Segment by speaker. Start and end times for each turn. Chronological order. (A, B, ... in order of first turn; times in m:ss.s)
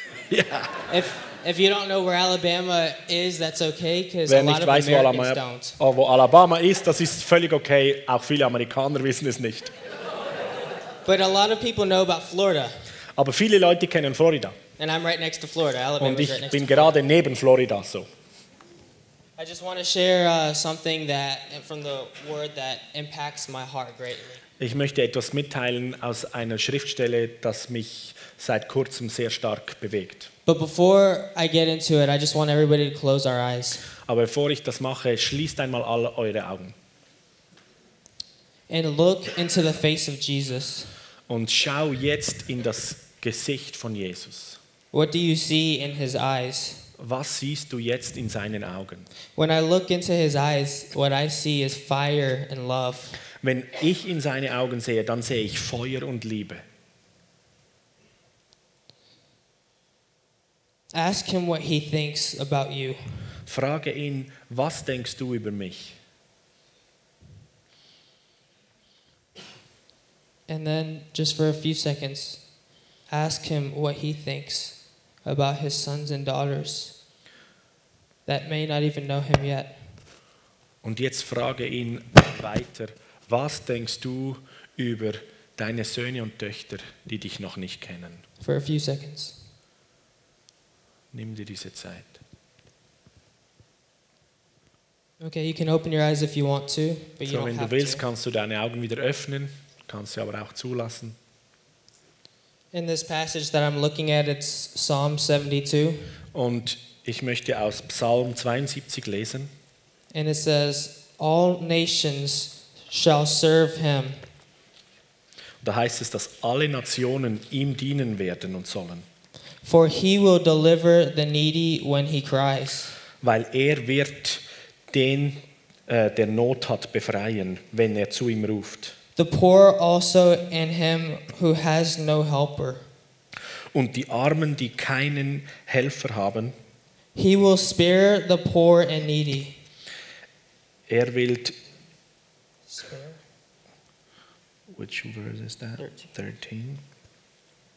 0:00.3-0:00.8 A
0:00.9-0:05.8 B
0:04.3-0:09.7 A
0:11.0-0:12.8 B
0:13.2-0:14.6 A
0:14.8-0:16.9 B
0:16.0-0:18.1 A
0:19.4-0:24.4 B
0:24.6-0:30.3 A
0:30.5-0:33.8 B
0:34.1-0:36.8 A
0:38.7-0:40.9 B
0:41.3-0:44.6 A
0:44.9-0:46.8 B
0:47.0-0:49.1 A
0:49.4-0:53.2 B
0:53.4-0:56.6 A
1:00.9-1:03.3 B
1:03.5-1:06.0 A
1:10.5-1:12.5 B
1:13.1-1:17.0 B
1:18.2-1:19.8 B
1:20.8-1:28.2 A
1:28.4-1:29.4 B
1:31.1-1:32.2 A
1:35.2-1:38.0 B
1:37.3-1:41.2 A
1:42.7-1:46.1 B
1:46.3-1:49.5 A
1:50.1-1:54.2 B
1:55.6-1:59.0 A
1:59.6-2:03.0 B
2:03.2-2:09.0 A
2:09.2-2:12.8 B
2:13.7-2:16.5 A
2:17.2-2:19.5 B
2:20.9-2:21.5 A
2:22.7-2:23.2 B
2:24.7-2:26.8 A